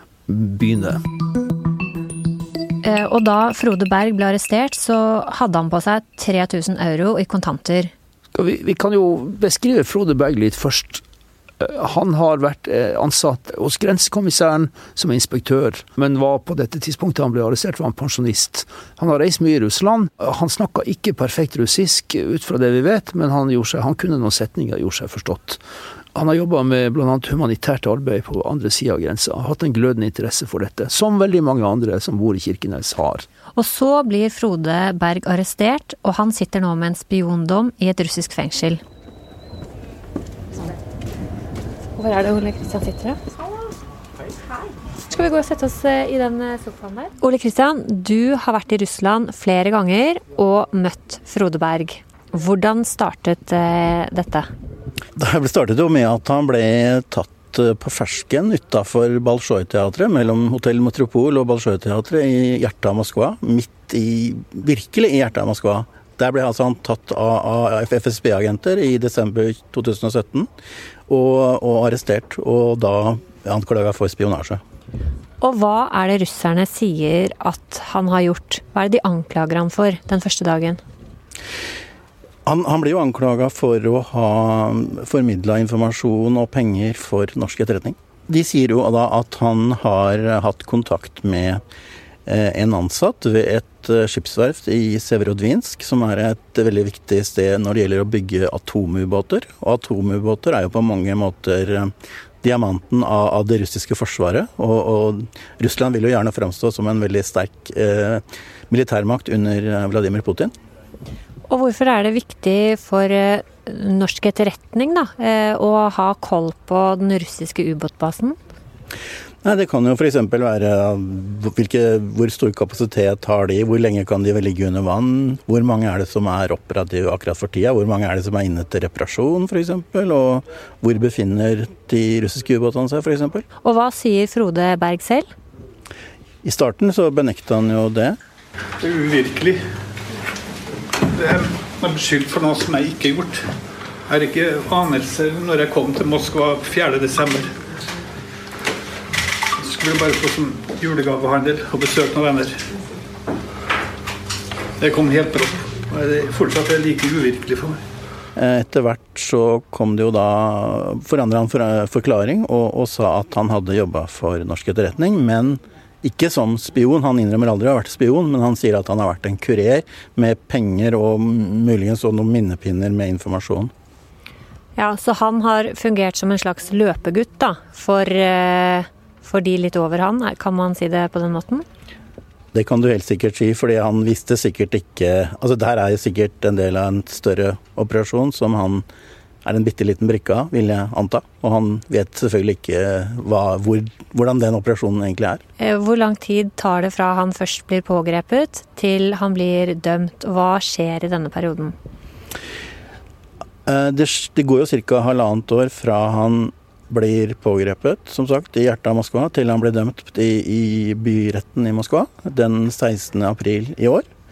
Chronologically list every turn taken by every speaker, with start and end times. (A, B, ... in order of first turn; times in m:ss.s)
0:00.3-0:01.0 A
0:02.8-0:07.9 B
0:08.4-0:11.0 A
0:11.6-0:25.6 A
0:26.2-0:33.3 A
0:33.6-0:38.8 B
0:42.0-0:43.2 B
0:45.1-0:54.5 B
0:55.2-1:10.5 C
1:11.1-1:14.6 C
1:15.4-1:20.8 B
1:22.5-1:31.6 C
1:32.3-1:41.9 C
1:42.4-1:50.5 C
1:51.5-1:58.4 B
1:59.4-2:13.4 C
2:13.6-2:15.3 B
2:16.4-2:18.2 C
2:18.8-2:19.6 D
2:21.1-2:23.4 D
2:24.1-2:27.5 D
2:29.6-2:32.6 D
2:34.8-2:37.8 D
2:38.4-2:53.7 C
2:54.8-3:01.6 B
3:02.5-3:08.8 C
3:09.4-3:15.4 C
3:15.6-3:21.8 B
3:23.7-3:34.0 C